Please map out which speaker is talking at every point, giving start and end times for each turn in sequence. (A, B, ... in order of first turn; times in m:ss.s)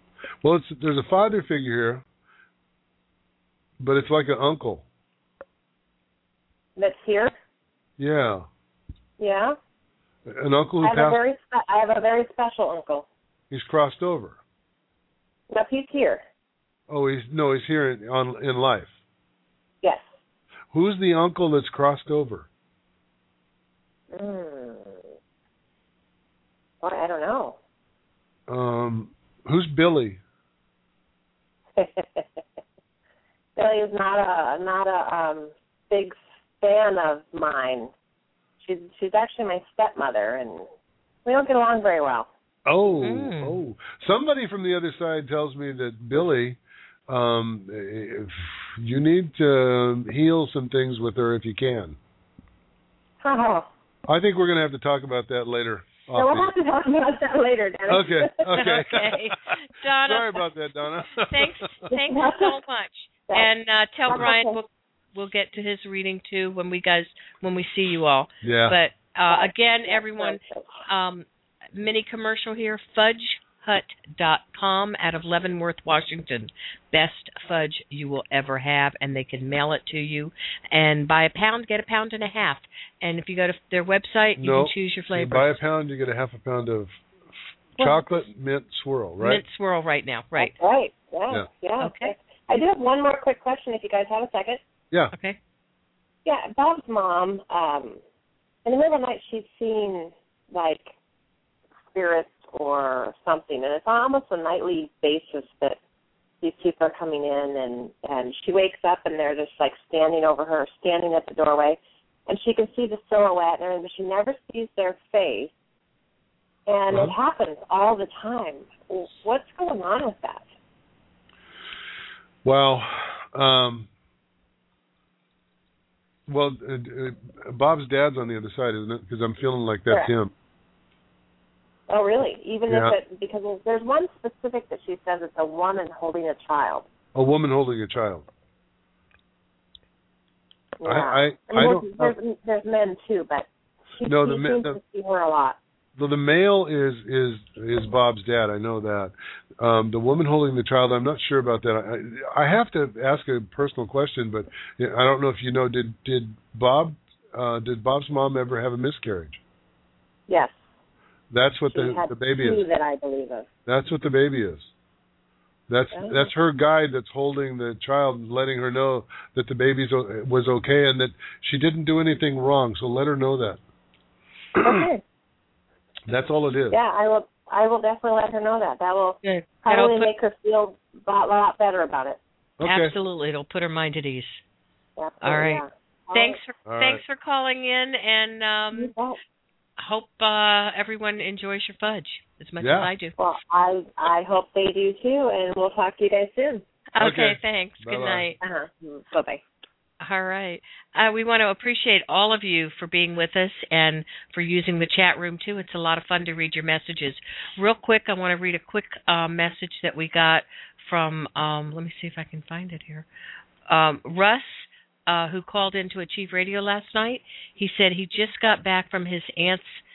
0:00.4-0:02.0 A
0:03.8-0:04.8 A
0:06.8-0:07.3 B
0:08.0-0:08.5 A
0:09.2-0:09.6 B
0:10.2-0:11.2 A
0:10.8-0:13.0 B
0:13.5-0:14.4 A
0:15.5-0:16.2 B
0:16.9-0:18.9 A
0:19.8-0:20.1 B
0:20.7-0:22.5 A
0:24.1-0:25.0 B
0:26.8-0:27.6 B
0:28.5-0:30.2 A
0:31.8-0:32.3 B
0:33.6-0:37.9 B
0:38.6-0:40.6 B
0:41.2-0:42.3 B
0:42.6-0:52.0 A
0:42.9-0:43.6 C
0:53.2-0:53.7 B
0:54.1-0:56.5 A
0:56.1-0:58.6 B
0:57.9-0:59.4 A
0:58.5-1:00.4 C
1:00.0-1:01.6 A
1:01.3-1:25.6 C
1:01.9-1:02.6 B
1:03.3-1:03.5 B
1:04.0-1:04.6 B
1:08.4-1:08.8 A
1:09.3-1:10.9 B
1:24.4-1:26.9 A
1:27.8-1:29.4 A
1:29.2-1:30.5 C
1:30.4-1:34.6 B
1:31.8-1:32.1 C
1:35.1-1:35.4 C
1:36.2-1:38.0 B
1:38.6-1:40.9 B
1:41.9-1:45.8 B
1:46.4-1:55.5 B
1:56.7-2:00.5 B
2:02.4-2:03.9 A
2:06.3-2:10.3 A
2:11.9-2:16.8 B
2:17.1-2:18.3 A
2:20.8-2:23.5 B
2:20.8-2:22.1 A
2:24.0-2:25.6 B
2:24.1-2:24.8 A
2:26.0-2:39.4 A
2:40.3-2:40.6 B
2:41.3-2:42.6 A
2:41.7-2:43.5 B
2:43.6-2:44.7 A
2:45.7-2:53.6 A
2:45.9-2:46.3 B
2:54.6-2:54.8 A
2:54.6-2:55.0 B
2:56.0-2:56.8 A
2:56.7-3:02.2 B
2:59.2-3:00.1 C
3:02.6-3:02.9 A
3:02.6-3:04.4 C
3:05.0-3:06.4 B
3:05.2-3:08.9 C
3:06.6-3:07.0 A
3:08.7-3:09.2 B
3:09.8-3:13.1 C
3:12.6-3:12.9 A
3:13.2-3:16.6 B
3:16.9-3:18.4 C
3:17.0-3:18.3 A
3:18.4-3:19.4 B
3:20.0-3:33.0 C
3:33.7-3:39.8 C